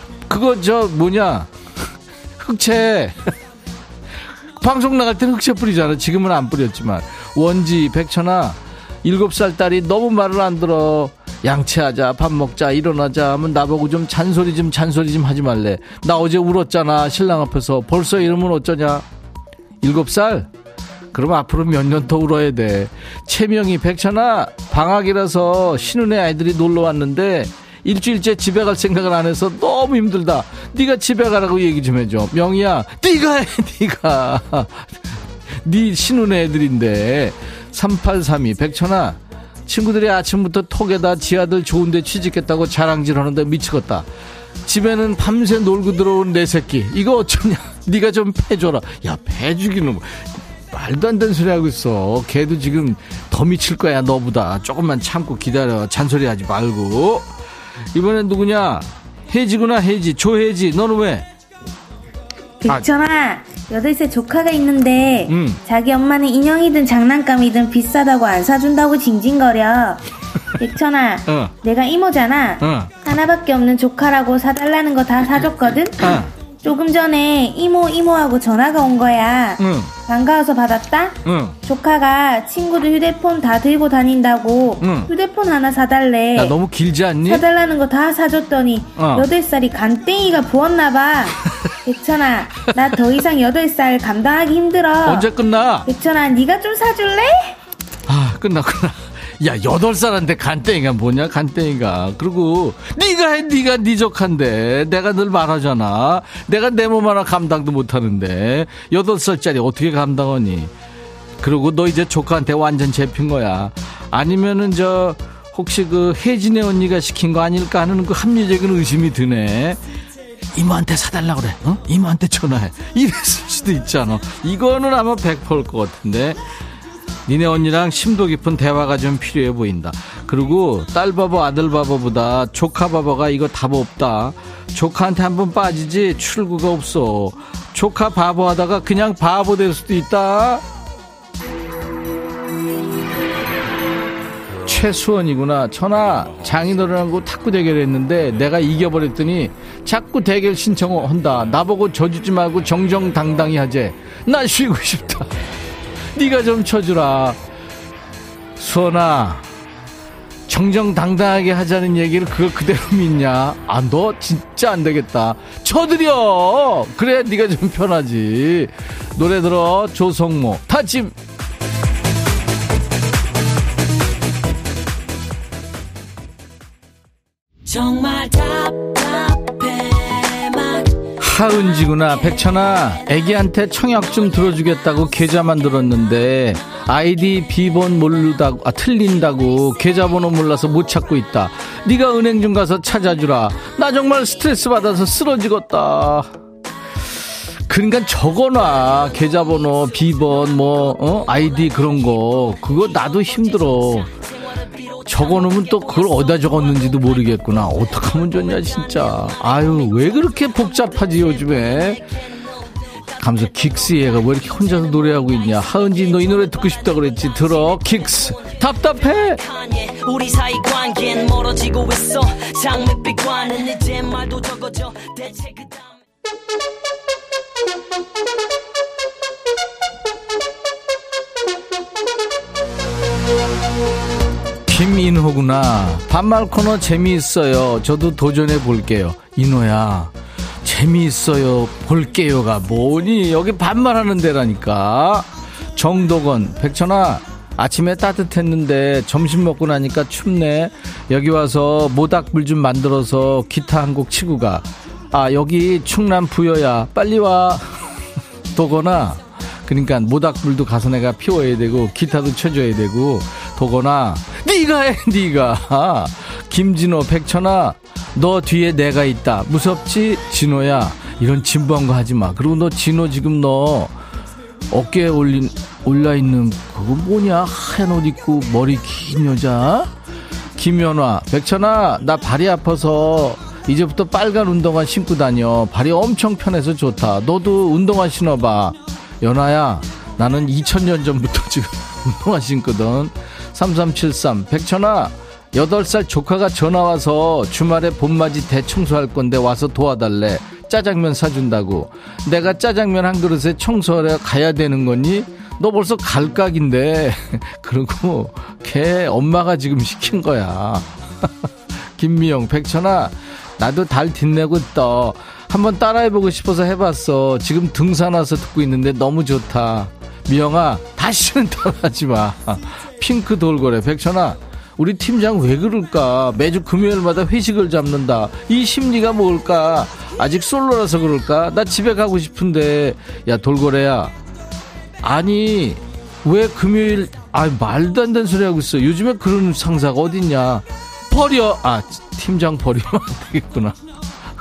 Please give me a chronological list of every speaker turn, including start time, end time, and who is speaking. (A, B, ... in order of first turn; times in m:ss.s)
0:00.3-0:03.3 A
0:04.6-0:19.0 A
0:19.8-0:20.5 A
0:21.1-0:35.0 A
0:35.6-0:44.1 A
0:44.7-0:57.3 A
0:58.0-1:01.3 A
1:02.6-1:10.0 B
1:05.3-1:05.6 A
1:10.6-1:26.6 B
1:11.3-1:11.5 A
1:12.6-1:13.0 A
1:16.0-1:16.3 A
1:19.6-1:19.9 A
1:21.2-1:21.6 A
1:24.8-1:25.1 A
1:26.4-1:27.4 A
1:27.2-1:35.3 B
1:29.0-1:29.3 A
1:35.0-1:35.9 A
1:35.9-1:37.5 B
1:38.1-1:50.7 A
1:51.4-1:59.8 A
2:00.6-2:06.4 A
2:07.3-2:20.6 A
2:24.6-2:35.4 A
2:36.1-2:37.4 A
2:38.6-2:39.4 A
2:40.5-2:51.1 A
2:57.7-3:00.9 C
3:01.2-3:16.3 A
3:17.7-3:24.1 A
3:23.8-3:27.0 C
3:25.1-3:32.0 A
3:33.2-3:39.4 A
3:39.2-3:46.0 C
3:54.7-4:00.1 A
4:00.6-4:17.7 A
4:18.5-4:33.9 A
4:34.7-4:39.9 A
4:40.6-5:11.3 A
5:12.0-5:34.1 A
5:35.0-5:43.8 A